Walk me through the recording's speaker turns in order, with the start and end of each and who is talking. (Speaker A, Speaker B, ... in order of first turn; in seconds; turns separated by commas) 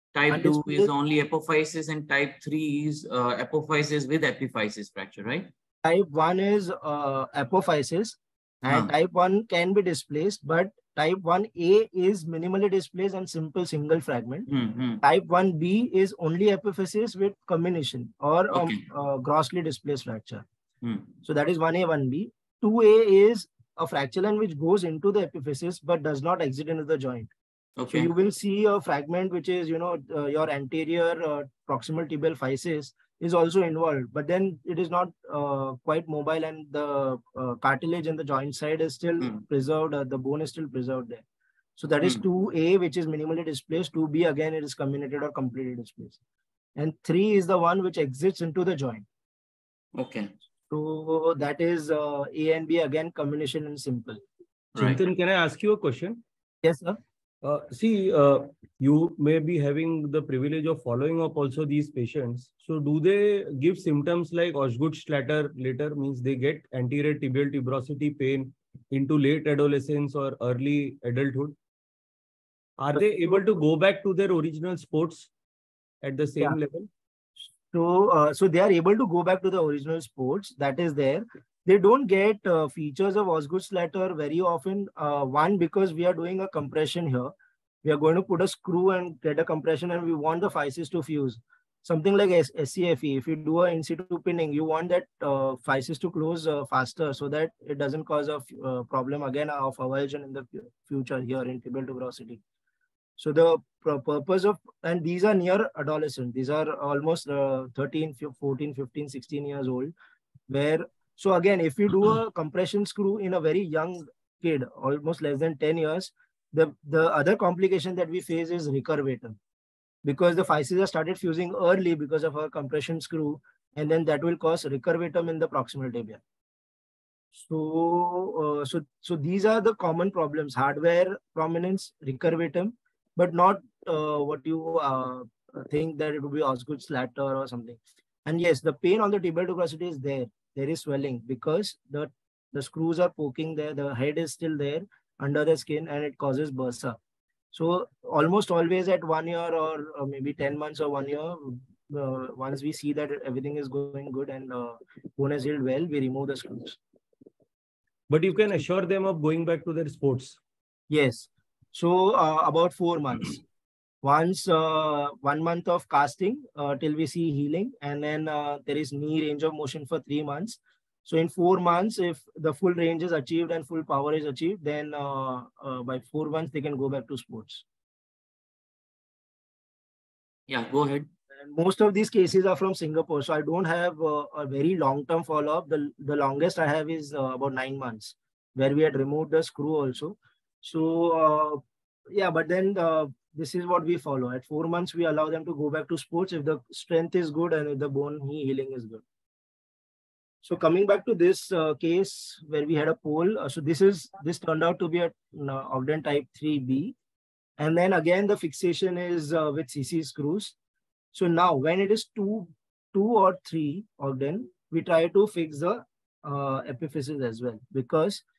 Speaker A: 0.1-5.5, Speaker B: 0.3-0.9, Speaker B: 5.8-14.5, Speaker A: 14.5-15.0, Speaker B: 15.0-20.4, Speaker A: 18.5-18.8, Speaker A: 20.8-21.1, Speaker B: 21.2-27.3, Speaker A: 27.8-28.1, Speaker B: 27.9-41.2, Speaker B: 41.8-46.2, Speaker B: 46.8-49.0, Speaker A: 50.0-50.3, Speaker B: 50.7-54.2, Speaker A: 54.7-55.0, Speaker C: 54.8-56.2, Speaker B: 56.6-57.0, Speaker C: 57.4-71.5, Speaker C: 72.8-75.3, Speaker B: 73.1-73.3, Speaker C: 76.0-76.9, Speaker B: 77.7-87.3, Speaker B: 87.8-102.4, Speaker B: 103.2-109.9, Speaker B: 110.5-119.4, Speaker B: 120.0-126.2, Speaker B: 127.3-147.0, Speaker B: 147.5-156.8, Speaker C: 158.1-160.4, Speaker B: 160.9-163.4, Speaker B: 164.0-177.6, Speaker A: 180.5-181.1, Speaker B: 181.4-199.0, Speaker B: 200.4-206.9, Speaker B: 207.6-210.5, Speaker B: 211.1-218.2